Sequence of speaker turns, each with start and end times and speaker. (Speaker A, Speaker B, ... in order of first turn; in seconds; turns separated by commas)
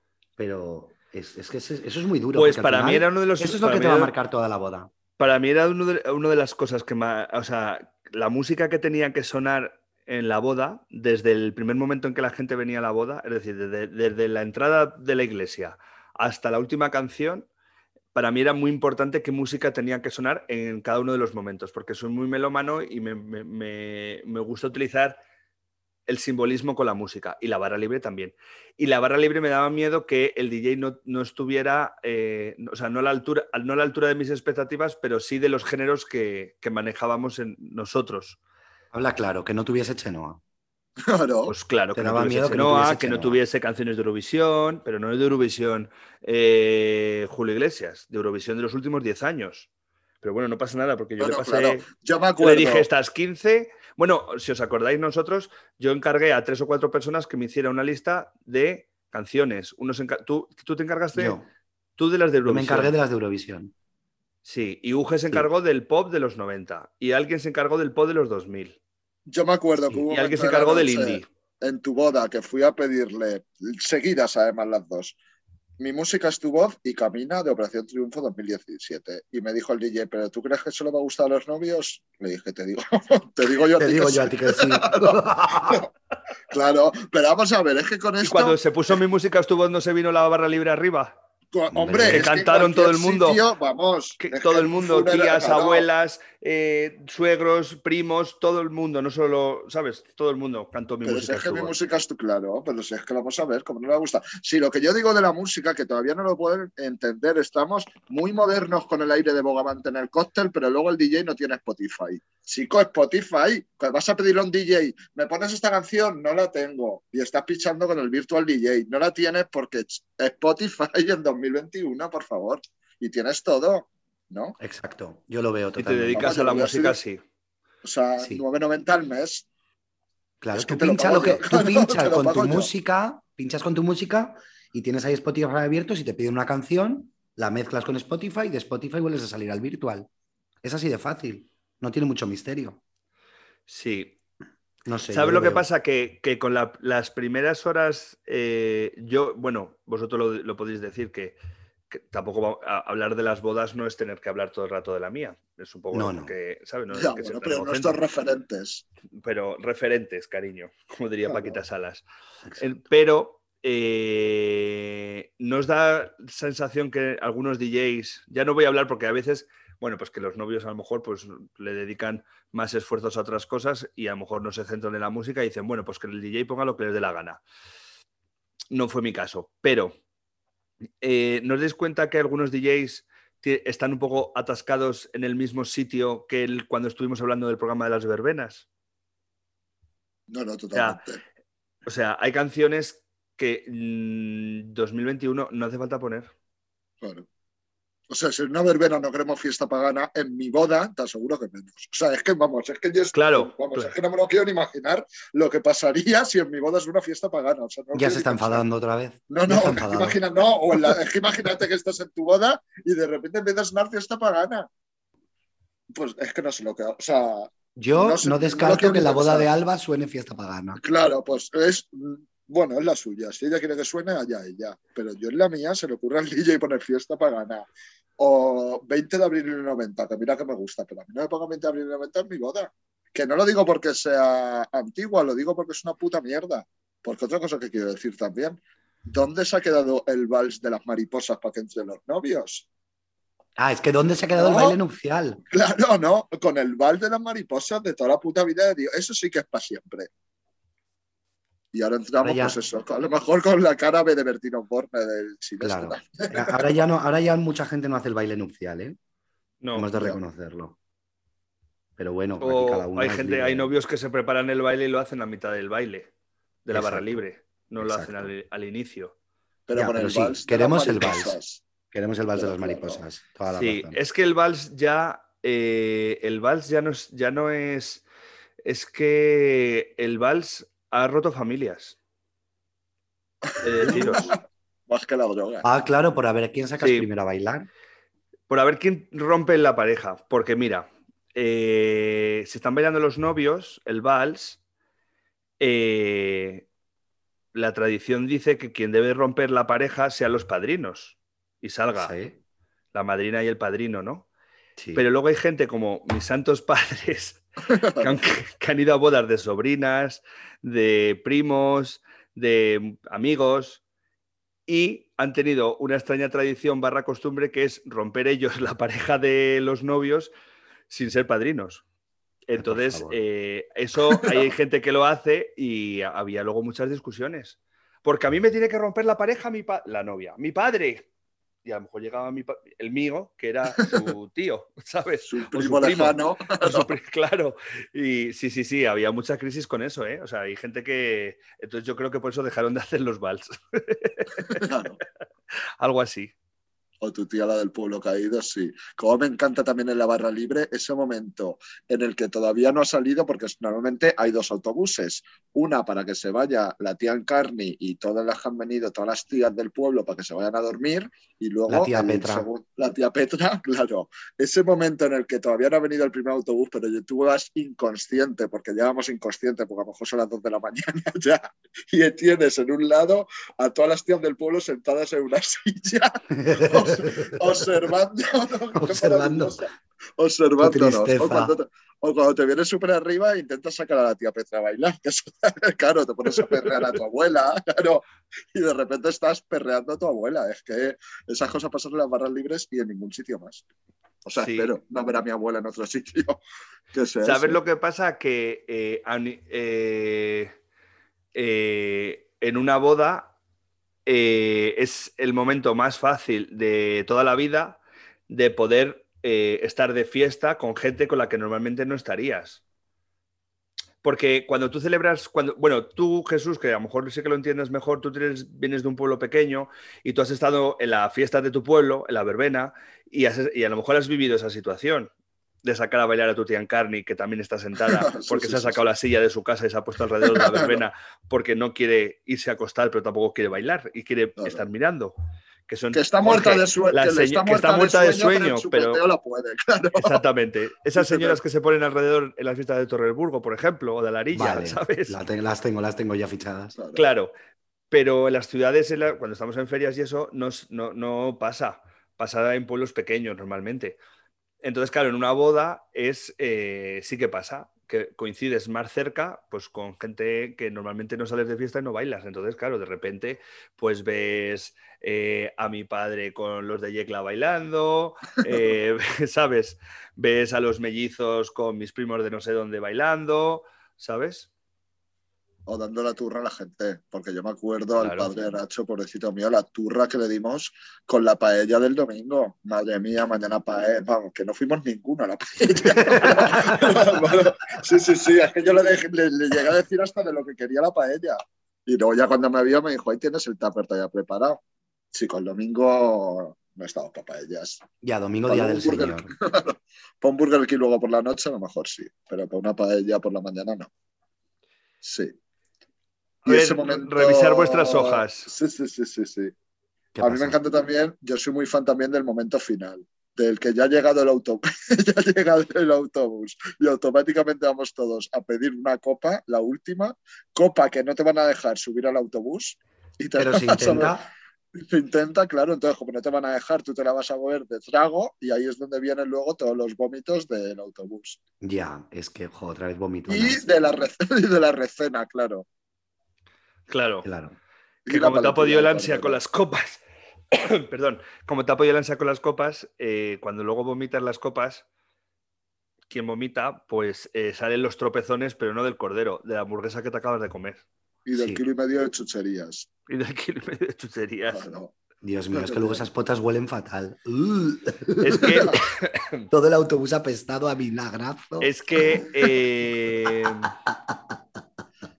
Speaker A: 0.4-4.9, Speaker B: 2.3-4.1, Speaker B: 5.2-17.5, Speaker B: 18.1-25.2, Speaker B: 26.1-38.4, Speaker A: 38.9-40.4, Speaker C: 41.0-41.5, Speaker B: 41.5-49.7, Speaker A: 41.9-43.4, Speaker B: 50.2-51.8, Speaker C: 51.2-52.9, Speaker B: 52.4-61.4, Speaker A: 61.1-61.5, Speaker B: 62.0-62.9, Speaker A: 62.5-63.7, Speaker B: 64.4-68.8, Speaker C: 69.3-75.2, Speaker B: 70.1-71.3, Speaker C: 75.8-85.9, Speaker A: 83.8-85.8, Speaker C: 86.5-88.6, Speaker B: 88.2-91.1, Speaker C: 91.5-95.8, Speaker A: 91.7-92.3, Speaker B: 92.1-93.4, Speaker B: 94.2-101.7, Speaker C: 101.0-124.5, Speaker A: 124.6-126.4, Speaker B: 125.8-127.2, Speaker C: 126.2-127.0, Speaker C: 127.8-129.4, Speaker A: 130.4-140.1, Speaker C: 130.5-132.7, Speaker A: 140.6-142.8, Speaker B: 143.7-144.2, Speaker A: 144.8-145.6, Speaker B: 145.1-151.4, Speaker B: 151.9-158.0, Speaker A: 155.9-156.3, Speaker C: 156.9-158.8, Speaker B: 159.2-177.4, Speaker C: 161.3-161.6, Speaker B: 178.7-179.9, Speaker B: 181.0-188.7, Speaker C: 190.3-191.2, Speaker B: 190.7-191.0, Speaker B: 191.8-196.3, Speaker C: 197.0-197.3, Speaker C: 198.1-208.6, Speaker B: 203.1-203.9, Speaker A: 207.9-210.2, Speaker C: 209.3-214.7, Speaker C: 215.9-219.5, Speaker A: 217.8-220.8, Speaker C: 220.8-227.7, Speaker C: 228.2-242.7, Speaker A: 243.6-245.4, Speaker C: 244.4-244.8, Speaker C: 245.5-250.1, Speaker C: 251.7-256.8, Speaker A: 252.2-252.6, Speaker A: 255.6-259.0, Speaker B: 259.6-259.9, Speaker A: 259.7-260.8, Speaker A: 262.0-263.7, Speaker B: 262.4-266.1, Speaker B: 266.6-269.1, Speaker A: 266.7-267.2, Speaker A: 267.8-268.3, Speaker C: 269.7-271.6, Speaker A: 269.7-271.4, Speaker A: 271.9-274.0, Speaker C: 272.3-273.0, Speaker B: 273.5-278.0, Speaker B: 278.6-282.0, Speaker C: 283.4-284.4, Speaker B: 283.6-284.3, Speaker A: 283.8-284.1, Speaker C: 284.9-285.7, Speaker A: 285.6-287.7, Speaker B: 286.8-287.1, Speaker B: 288.5-294.6, Speaker B: 295.6-296.6, Speaker B: 297.5-302.1, Speaker A: 301.9-302.4, Speaker B: 302.9-304.2, Speaker A: 304.8-305.0, Speaker B: 304.9-307.4, Speaker C: 307.8-308.1, Speaker B: 308.0-313.8, Speaker B: 314.7-320.3, Speaker B: 320.9-321.8, Speaker B: 322.5-331.1, Speaker A: 322.6-323.2, Speaker B: 331.6-344.6, Speaker C: 335.2-336.9, Speaker C: 344.6-345.0, Speaker B: 345.8-346.3, Speaker C: 347.0-393.6, Speaker A: 361.7-362.5, Speaker A: 376.4-377.4, Speaker A: 378.8-379.6, Speaker A: 380.6-381.5, Speaker C: 394.2-396.4, Speaker B: 394.4-394.7, Speaker C: 396.9-397.6, Speaker B: 397.2-400.5, Speaker B: 401.3-403.3, Speaker B: 404.1-412.6, Speaker B: 414.0-425.1, Speaker B: 425.6-435.1, Speaker C: 428.0-428.9, Speaker C: 430.3-430.8, Speaker C: 434.4-434.6, Speaker B: 435.7-439.0, Speaker C: 435.9-440.2, Speaker B: 439.9-445.1, Speaker C: 440.9-441.4, Speaker A: 444.3-446.7, Speaker C: 446.7-447.0, Speaker B: 446.9-447.3, Speaker B: 447.9-454.0, Speaker B: 454.6-474.5, Speaker C: 475.7-494.6, Speaker B: 478.0-478.3, Speaker A: 486.1-486.8, Speaker C: 495.1-497.8, Speaker A: 498.0-499.3, Speaker C: 498.5-503.9, Speaker C: 505.0-505.3, Speaker B: 506.4-508.5, Speaker C: 506.4-509.5, Speaker A: 510.1-510.6, Speaker C: 510.2-524.2, Speaker A: 523.4-524.2, Speaker C: 524.7-531.4, Speaker A: 531.6-533.6, Speaker C: 533.3-535.6, Speaker B: 536.9-537.3, Speaker A: 537.2-537.6, Speaker C: 538.1-539.4, Speaker B: 538.1-544.8, Speaker B: 546.1-550.8, Speaker C: 551.2-552.9, Speaker A: 551.3-551.6, Speaker B: 553.1-554.6, Speaker C: 554.5-554.9, Speaker A: 555.2-558.7, Speaker C: 555.5-556.0, Speaker B: 558.2-559.5, Speaker A: 559.5-561.7, Speaker B: 561.6-563.7, Speaker A: 563.9-564.2